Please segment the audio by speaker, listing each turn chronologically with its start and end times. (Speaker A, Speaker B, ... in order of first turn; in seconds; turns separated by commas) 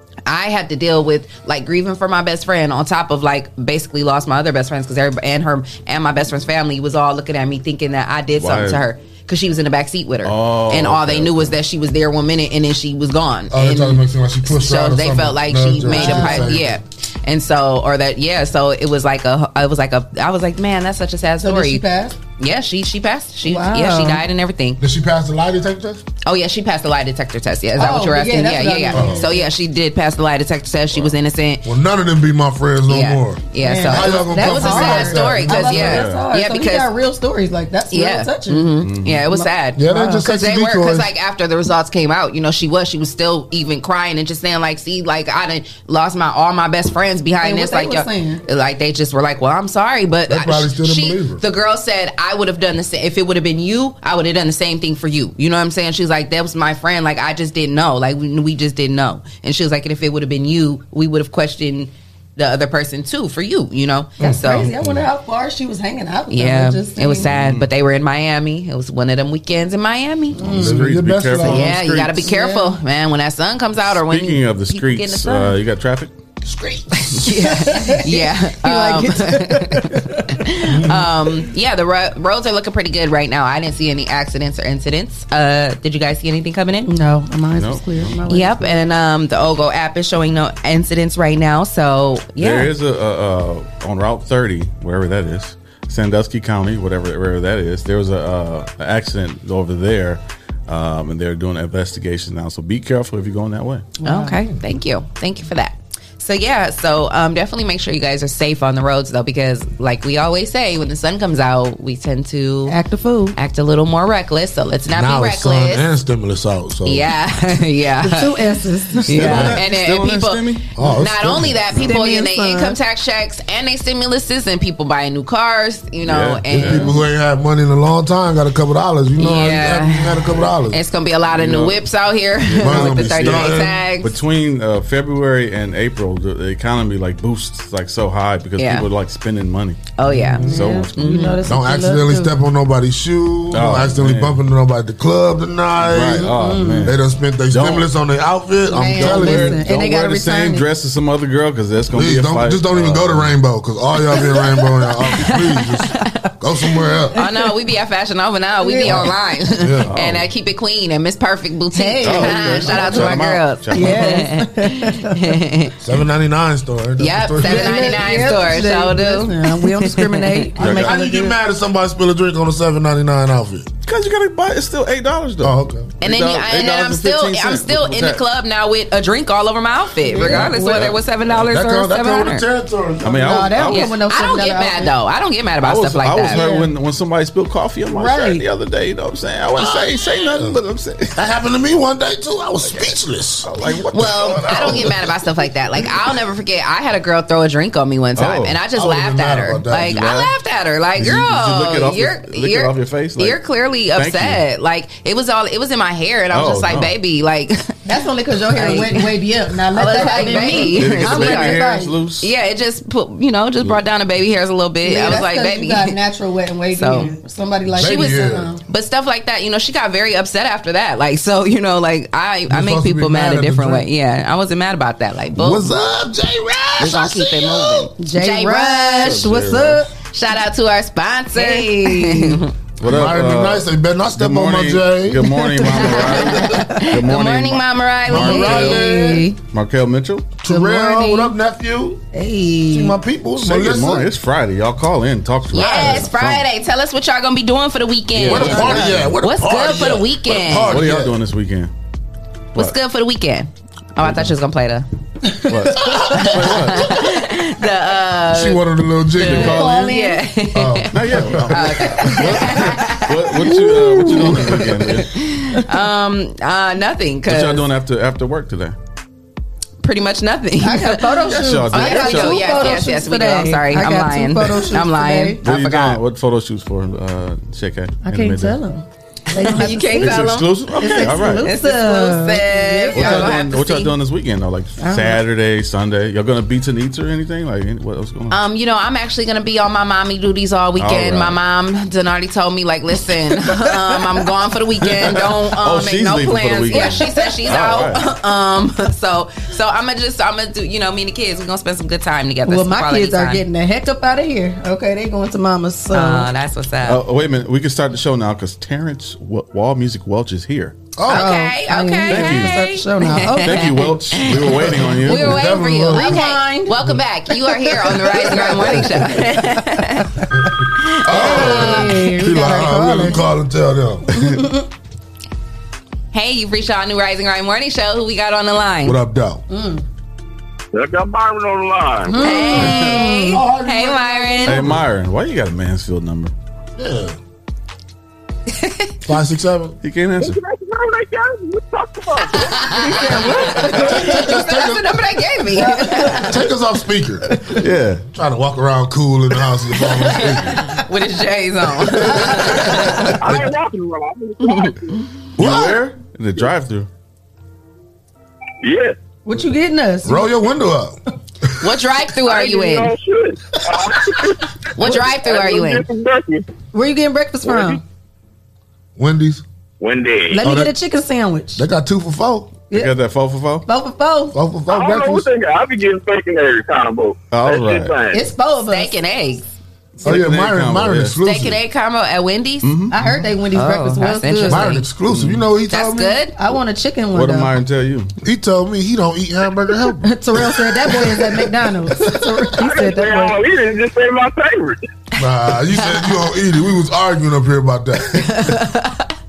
Speaker A: 0.2-24.8, Speaker B: 8.3-8.8, Speaker B: 10.2-11.6, Speaker C: 13.5-16.7, Speaker D: 15.8-16.6, Speaker D: 21.4-22.2, Speaker D: 23.4-24.2, Speaker C: 24.8-26.0, Speaker A: 26.2-31.6, Speaker D: 27.7-29.5, Speaker C: 28.9-29.3, Speaker C: 31.6-35.9, Speaker A: 32.9-36.9, Speaker D: 33.6-40.2, Speaker B: 35.5-36.3, Speaker A: 37.9-64.7, Speaker B: 38.8-39.3, Speaker C: 39.8-41.1, Speaker D: 47.4-48.4, Speaker C: 50.3-51.4, Speaker D: 64.2-67.3, Speaker C: 64.2-64.6, Speaker A: 66.3-70.6, Speaker B: 67.2-67.7, Speaker D: 70.4-70.9, Speaker B: 70.5-72.3, Speaker C: 70.5-71.7, Speaker A: 71.4-75.6, Speaker D: 72.2-72.8, Speaker B: 73.9-76.1, Speaker C: 76.4-77.1, Speaker A: 77.0-86.9, Speaker D: 77.2-80.5, Speaker C: 80.7-81.1, Speaker D: 86.8-88.8, Speaker B: 87.5-88.2, Speaker A: 88.3-92.7, Speaker B: 92.4-103.9, Speaker D: 104.0-104.4, Speaker A: 104.0-112.8, Speaker D: 112.7-113.3, Speaker A: 113.3-115.8, Speaker C: 114.9-117.1, Speaker A: 116.8-118.4, Speaker D: 118.0-119.5, Speaker A: 119.0-127.0, Speaker B: 119.1-120.7, Speaker C: 119.1-119.6, Speaker C: 120.7-121.6, Speaker D: 121.8-122.8, Speaker B: 126.0-127.0, Speaker C: 126.5-130.8, Speaker A: 129.2-134.1, Speaker B: 131.3-131.8, Speaker B: 132.4-139.8, Speaker C: 132.6-133.8, Speaker A: 138.6-138.9, Speaker A: 140.0-141.4, Speaker C: 140.1-140.6, Speaker B: 140.4-141.3, Speaker D: 140.4-142.3, Speaker C: 141.4-149.6, Speaker B: 143.5-144.4, Speaker B: 145.8-147.0, Speaker D: 146.2-146.9, Speaker B: 147.5-147.9, Speaker D: 148.7-150.7, Speaker B: 148.8-153.3, Speaker C: 151.9-157.2, Speaker D: 154.3-154.7, Speaker D: 155.2-156.2, Speaker D: 156.8-157.5, Speaker A: 157.2-165.7, Speaker D: 158.6-159.1, Speaker C: 159.6-159.9, Speaker B: 159.9-160.3, Speaker D: 161.7-165.4, Speaker B: 162.0-164.2, Speaker C: 165.8-168.2, Speaker A: 167.0-170.5, Speaker D: 167.4-171.4, Speaker B: 170.6-171.1, Speaker C: 170.6-173.7, Speaker B: 173.8-178.2, Speaker C: 175.4-175.9, Speaker A: 176.0-182.4, Speaker D: 180.0-180.9, Speaker B: 180.2-181.0, Speaker C: 181.3-183.6, Speaker B: 183.0-183.9, Speaker D: 183.1-184.9, Speaker A: 183.7-186.4, Speaker B: 185.6-191.2, Speaker D: 186.3-186.7, Speaker D: 187.9-188.4, Speaker C: 189.6-190.6, Speaker C: 191.1-194.9, Speaker B: 193.4-194.9, Speaker A: 193.9-207.7, Speaker B: 198.2-198.6, Speaker C: 198.7-200.0, Speaker B: 199.8-200.3, Speaker B: 200.9-203.4, Speaker B: 203.9-204.4, Speaker B: 206.3-206.9, Speaker D: 207.8-212.0, Speaker A: 208.5-209.1, Speaker A: 209.7-211.6, Speaker B: 209.8-212.3, Speaker A: 212.2-215.9, Speaker D: 214.8-218.6, Speaker A: 216.7-217.1, Speaker C: 217.7-218.5, Speaker A: 218.6-225.7, Speaker C: 222.5-223.9, Speaker C: 225.3-227.9, Speaker A: 226.8-229.2, Speaker D: 228.0-229.9, Speaker B: 229.0-229.8, Speaker A: 230.0-232.5, Speaker D: 231.3-232.4, Speaker B: 232.8-240.4, Speaker C: 232.8-235.3, Speaker D: 235.3-236.9, Speaker A: 235.7-239.2, Speaker C: 238.1-239.2, Speaker D: 238.2-239.3, Speaker C: 240.4-242.0, Speaker D: 240.4-241.3, Speaker D: 242.1-243.0, Speaker C: 242.7-244.1, Speaker B: 243.4-246.5, Speaker A: 245.5-250.8, Speaker D: 245.6-246.0, Speaker B: 248.1-249.1, Speaker C: 248.2-251.2, Speaker B: 250.5-251.7, Speaker A: 252.5-254.8, Speaker B: 254.0-254.3, Speaker D: 255.4-256.3, Speaker B: 255.5-257.0, Speaker A: 255.8-258.6, Speaker C: 258.3-259.7, Speaker A: 259.1-263.3, Speaker B: 259.2-259.9, Speaker D: 259.2-260.3, Speaker C: 260.5-262.0, Speaker B: 260.9-265.1, Speaker D: 263.4-264.6, Speaker A: 264.1-267.7, Speaker B: 267.3-268.8, Speaker A: 269.8-276.0, Speaker D: 270.6-275.4, Speaker B: 271.3-272.9, Speaker B: 275.4-278.6, Speaker D: 278.0-283.5, Speaker A: 279.3-283.9, Speaker B: 279.5-281.6, Speaker B: 282.9-288.4, Speaker D: 284.8-285.2, Speaker A: 288.3-303.4, Speaker B: 290.8-291.4, Speaker B: 295.0-298.1, Speaker D: 296.7-297.3, Speaker D: 302.4-306.3, Speaker A: 305.9-307.0, Speaker B: 306.8-310.8, Speaker C: 310.9-311.3, Speaker D: 311.1-314.0, Speaker A: 311.1-320.1, Speaker B: 312.1-312.6, Speaker B: 313.3-315.6, Speaker C: 314.5-316.2, Speaker D: 315.8-320.5, Speaker A: 320.8-321.9, Speaker D: 321.0-323.2, Speaker C: 321.0-324.1, Speaker B: 324.1-324.4, Speaker D: 324.2-324.6, Speaker A: 326.1-329.0, Speaker C: 328.8-329.4, Speaker D: 329.5-329.8, Speaker E: 330.7-332.3, Speaker D: 332.1-333.4, Speaker A: 332.1-334.7, Speaker B: 332.6-333.0, Speaker C: 333.2-334.8, Speaker B: 334.4-336.3, Speaker C: 336.8-337.2, Speaker A: 338.5-338.9, Speaker C: 339.0-339.8, Speaker B: 339.8-340.4, Speaker E: 340.2-342.7, Speaker A: 342.3-346.4, Speaker D: 342.7-344.4, Speaker C: 343.5-344.9, Speaker D: 345.5-346.4, Speaker C: 346.0-347.4, Speaker B: 347.5-348.0, Speaker C: 348.1-350.6, Speaker A: 349.8-353.1, Speaker C: 352.1-353.5, Speaker D: 352.1-353.0, Speaker E: 353.2-355.0, Speaker A: 354.4-354.7, Speaker C: 355.4-355.8, Speaker B: 355.4-356.9, Speaker E: 358.6-359.0, Speaker D: 359.2-360.3, Speaker C: 360.0-361.0, Speaker A: 361.6-362.9, Speaker E: 362.2-366.4, Speaker A: 364.7-365.8, Speaker D: 366.7-367.8, Speaker E: 367.4-367.8, Speaker C: 369.0-369.4, Speaker E: 369.8-370.4, Speaker D: 370.3-371.6, Speaker C: 370.4-370.7, Speaker C: 371.6-372.5, Speaker B: 372.7-373.7, Speaker D: 373.6-374.3, Speaker C: 374.3-375.3, Speaker E: 374.7-378.2, Speaker B: 377.3-378.0, Speaker D: 378.1-378.9, Speaker A: 378.7-379.5, Speaker B: 380.0-381.1, Speaker C: 380.0-381.6, Speaker A: 381.2-382.7, Speaker B: 382.6-383.1, Speaker D: 382.9-384.8, Speaker A: 383.5-384.8, Speaker C: 384.5-386.2, Speaker B: 385.1-385.4, Speaker A: 385.7-386.3, Speaker D: 386.3-387.5, Speaker B: 387.1-388.1, Speaker C: 388.2-392.4, Speaker D: 390.0-393.4, Speaker E: 392.6-394.8, Speaker C: 395.2-398.2, Speaker A: 398.2-399.0